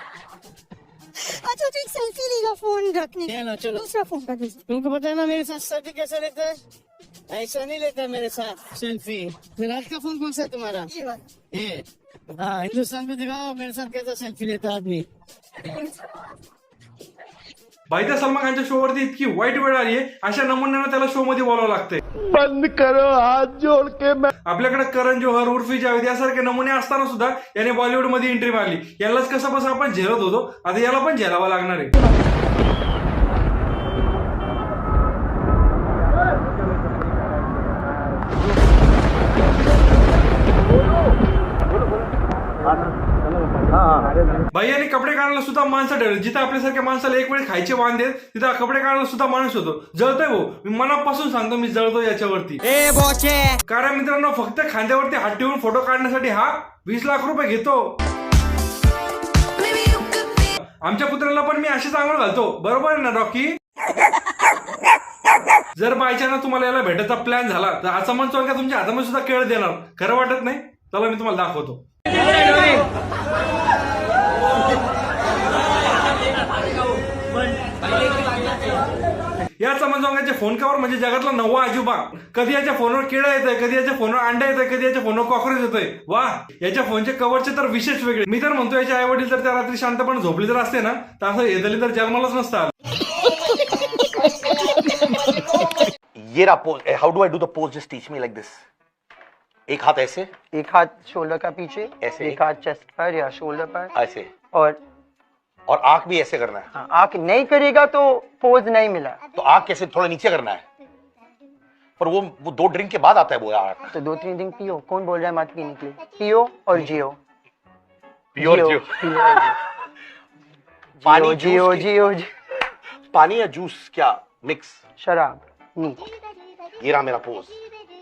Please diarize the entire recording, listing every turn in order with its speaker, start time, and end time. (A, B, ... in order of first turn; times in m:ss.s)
0:01.2-0:04.6 A
0:03.3-0:03.8 B
0:04.6-0:06.6 B
0:07.3-0:10.9 B
0:10.9-0:11.2 A
0:11.5-0:11.8 B
0:12.4-0:15.1 B
0:17.9-0:22.0 C
0:22.3-0:24.3 D
0:24.5-0:31.9 C
0:44.5-0:52.8 C
0:52.8-0:53.5 B
0:53.7-0:57.9 C
1:00.6-1:03.6 C
1:05.8-1:11.8 C
1:19.6-1:32.7 C
1:36.2-1:38.6 E
1:39.7-1:40.3 E
1:40.5-1:43.9 F
1:42.0-1:42.4 E
1:44.0-1:44.3 E
1:44.5-1:44.8 F
1:45.7-1:46.7 E
1:46.7-1:49.2 F
1:49.3-1:50.6 E
1:52.0-1:53.8 E
1:53.9-1:57.2 F
1:58.4-1:58.9 E
1:58.4-1:59.6 F
2:01.0-2:02.3 F
2:01.0-2:02.0 E
2:03.1-2:04.8 E
2:05.0-2:06.1 F
2:06.8-2:07.6 E